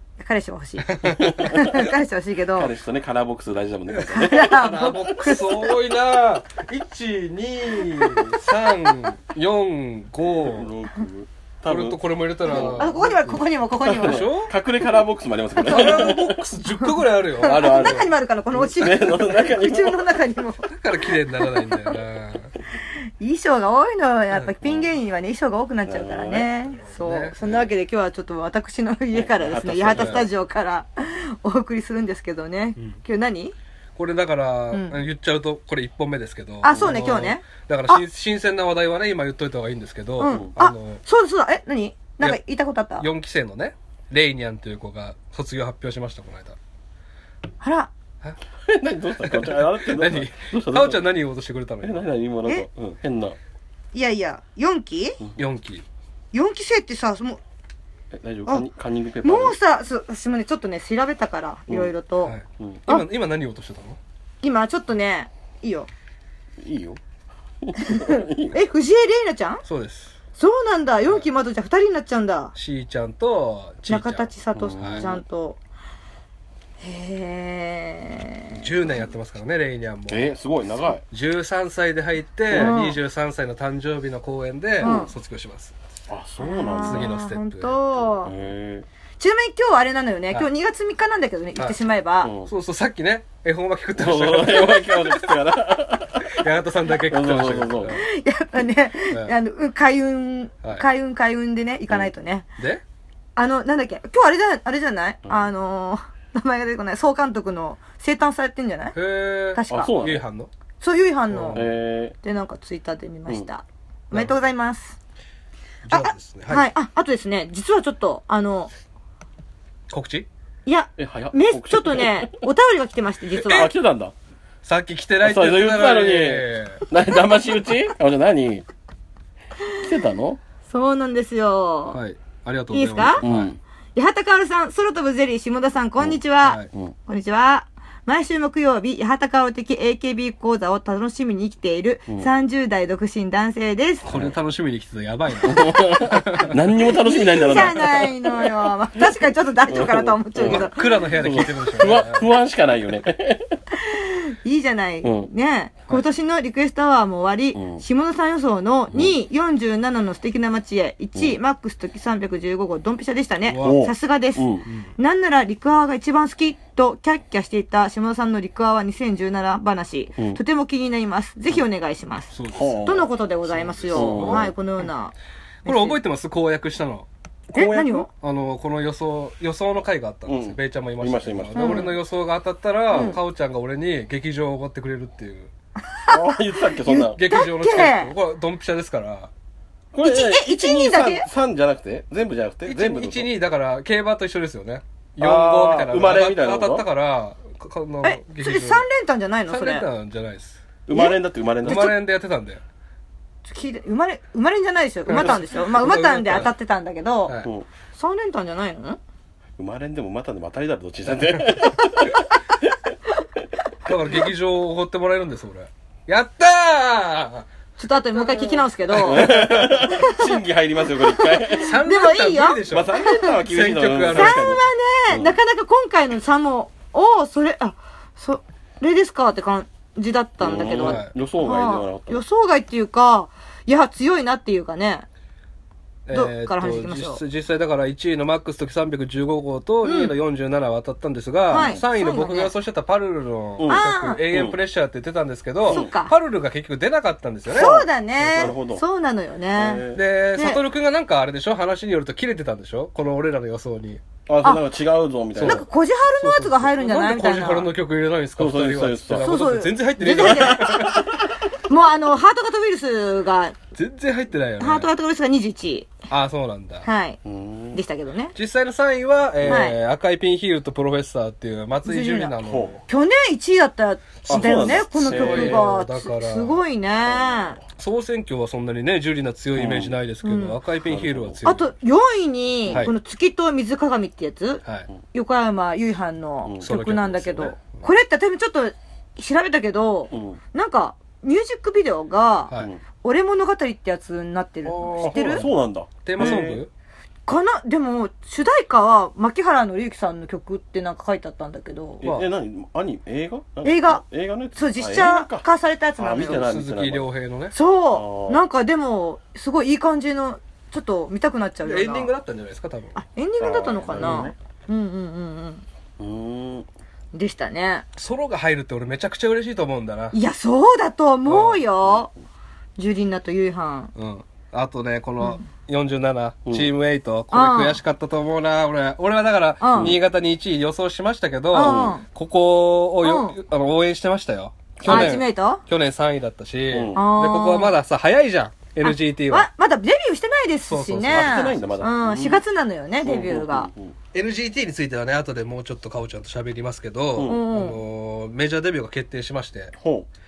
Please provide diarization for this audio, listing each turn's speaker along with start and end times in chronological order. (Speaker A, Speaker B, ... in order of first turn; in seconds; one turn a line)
Speaker A: 0.2-2.7
Speaker B: 0.9-1.9
Speaker C: 1.2-1.6
Speaker C: 2.6-4.7
Speaker B: 3.9-10.7
Speaker A: 4.1-5.7
Speaker C: 10.4-13.0
Speaker B: 11.7-14.5
Speaker A: 12.5-14.3
Speaker C: 13.8-16.4
Speaker B: 15.6-18.1
Speaker A: 15.7-16.1
Speaker A: 16.8-22.0
Speaker C: 17.5-20.1
Speaker B: 20.7-22.5
Speaker A: 23.2-33.5
Speaker C: 25.9-26.5
Speaker B: 26.4-27.4
Speaker C: 29.1-30.3
Speaker B: 29.9-30.2
Speaker B: 34.0-41.0
Speaker A: 34.7-35.0
Speaker A: 36.6-38.0
Speaker A: 40.2-43.1
Speaker B: 43.0-46.6
Speaker A: 47.6-47.9
Speaker C: 48.7-51.0
Speaker B: 49.2-52.0
Speaker C: 51.8-53.4
Speaker A: 53.9-55.2
Speaker B: 55.4-55.9
Speaker A: 56.3-57.4
Speaker C: 58.1-59.6
Speaker A: 59.2-62.4
Speaker B: 62.2-64.0
Speaker A: 64.4-65.9
Speaker C: 66.6-67.0
Speaker C: 67.6-68.6
Speaker A: 67.8-69.6
Speaker B: 69.7-70.2
Speaker A: 70.4-72.5
Speaker B: 72.5-75.1
Speaker A: 73.9-75.6
Speaker C: 74.5-75.2
Speaker A: 76.8-78.8
Speaker B: 78.6-80.4
Speaker C: 80.1-81.0
Speaker B: 81.1-85.8
Speaker C: 82.5-82.8
Speaker A: 82.5-83.0
Speaker C: 84.8-85.1
Speaker A: 84.8-85.1
Speaker C: 86.1-87.1
Speaker A: 86.4-88.3
Speaker B: 86.8-87.8
Speaker C: 88.2-88.9
Speaker A: 89.2-92.3
Speaker C: 92.2-92.5
Speaker B: 92.5-95.4
Speaker C: 94.0-96.3
Speaker B: 96.2-98.1
Speaker C: 97.0-98.0
Speaker A: 97.9-102.5
Speaker A: 103.4-109.0
Speaker B: 108.9-110.5
Speaker A: 109.5-110.0
Speaker C: 109.7-110.2
Speaker A: 110.8-111.7
Speaker B: 111.3-111.7
Speaker C: 111.5-112.2
Speaker A: 112.2-115.0
Speaker B: 114.1-114.4
Speaker B: 115.8-116.7
Speaker A: 115.9-118.7
Speaker B: 119.9-120.3
Speaker A: 120.7-123.7
Speaker C: 121.0-122.5
Speaker C: 123.5-124.1
Speaker B: 124.6-126.8
Speaker C: 125.2-128.7
Speaker C: 129.8-130.4
Speaker A: 130.7-132.0
Speaker B: 131.9-133.5
Speaker A: 132.7-133.2
Speaker C: 133.2-133.6
Speaker A: 133.9-144.1
Speaker B: 136.4-136.7
Speaker B: 144.1-146.7
Speaker C: 144.1-144.3
Speaker C: 145.4-149.1
Speaker A: 146.8-150.9
Speaker C: 149.7-153.6
Speaker B: 150.4-152.3
Speaker A: 153.8-176.0
Speaker C: 155.0-155.3
Speaker C: 157.6-157.8
Speaker B: 163.5-163.8
Speaker C: 163.6-164.7
Speaker B: 164.7-164.9
Speaker B: 172.3-174.5
Speaker C: 172.5-173.1
Speaker C: 173.9-174.5
Speaker B: 175.7-177.1
Speaker C: 177.5-178.1
Speaker A: 177.5-178.1
Speaker B: 178.2-185.5
Speaker C: 180.3-181.9
Speaker A: 181.6-181.9
Speaker C: 182.9-183.2
Speaker A: 182.9-183.2
Speaker C: 186.1-187.2
Speaker A: 186.7-188.1
Speaker B: 186.9-189.3
Speaker C: 189.9-193.3
Speaker A: 190.0-191.3
Speaker B: 192.7-198.9
Speaker C: 195.2-196.9
Speaker A: 198.0-199.9
Speaker B: 199.5-200.6
Speaker C: 200.9-201.9
Speaker A: 200.9-202.0
Speaker B: 201.6-202.6
Speaker A: 203.5-207.4
Speaker B: 205.1-206.5
Speaker A: 207.9-209.0
Speaker C: 209.6-212.8
Speaker B: 211.3-211.6
Speaker B: 213.8-217.5
Speaker A: 217.8-220.3
Speaker B: 218.2-219.9
Speaker C: 218.9-221.8
Speaker A: 221.0-223.3
Speaker B: 221.6-224.5
Speaker C: 222.7-225.4
Speaker A: 224.1-235.1
Speaker C: 230.4-232.2
Speaker B: 230.8-231.1
Speaker B: 236.1-248.5
Speaker A: 236.1-237.2
Speaker A: 239.8-240.1
Speaker A: 241.5-242.5
Speaker C: 241.5-241.8
Speaker C: 243.6-244.6
Speaker A: 243.7-244.2
Speaker A: 245.7-246.1
Speaker C: 245.7-245.9
Speaker A: 247.5-249.8
Speaker C: 247.5-248.8
Speaker C: 249.6-250.0
Speaker B: 249.9-254.0
Speaker A: 250.3-250.6
Speaker C: 254.3-255.7
Speaker B: 255.3-255.7
Speaker A: 255.4-257.7
Speaker B: 256.2-261.1
Speaker C: 258.4-259.3
Speaker A: 259.2-261.0
Speaker C: 260.1-261.0
Speaker A: 261.7-263.6
Speaker B: 263.7-264.9
Speaker A: 264.6-265.9
Speaker B: 266.1-266.9
Speaker A: 266.8-267.2
Speaker C: 267.2-267.8
Speaker A: 267.7-268.4
Speaker B: 268.4-272.8
Speaker C: 269.4-269.7
Speaker A: 269.5-269.8
Speaker A: 271.9-277.6
Speaker C: 272.4-272.8
Speaker B: 274.2-276.6
Speaker C: 274.3-275.7
Speaker C: 277.1-277.6
Speaker B: 277.8-281.7
Speaker C: 279.6-279.9
Speaker A: 280.2-280.6
Speaker C: 280.9-281.4
Speaker A: 281.4-295.5
Speaker C: 286.4-286.7
Speaker B: 286.6-287.9
Speaker C: 290.1-290.4
Speaker B: 294.6-295.5
Speaker C: 295.0-296.6
Speaker B: 296.0-296.7
Speaker A: 297.3-302.0
Speaker B: 302.0-302.3
Speaker C: 302.0-305.5
Speaker A: 303.6-304.0
Speaker A: 304.6-306.5
Speaker C: 306.0-307.1
Speaker B: 306.3-307.6
Speaker A: 307.5-312.1
Speaker C: 307.9-308.4
Speaker B: 311.6-313.0
Speaker A: 313.0-315.6
Speaker C: 313.4-314.3
Speaker B: 314.0-314.3
Speaker C: 316.0-316.7
Speaker A: 317.1-317.9
Speaker B: 318.0-320.2
Speaker A: 320.1-322.1
Speaker B: 321.3-321.6
Speaker A: 322.8-323.9
Speaker B: 323.9-339.5
Speaker A: 325.2-325.5
Speaker A: 327.3-327.8
Speaker A: 329.6-330.0
Speaker C: 329.7-330.0
Speaker A: 331.5-332.1
Speaker C: 331.6-332.0
Speaker A: 333.0-333.4
Speaker C: 334.8-335.2
Speaker A: 334.8-335.6
Speaker C: 336.7-337.0
Speaker A: 336.9-337.8
Speaker A: 338.8-343.7
Speaker B: 340.7-341.6
Speaker C: 341.1-342.4
Speaker C: 343.0-343.9
Speaker B: 344.1-349.7
Speaker A: 347.2-347.8
Speaker C: 349.8-350.1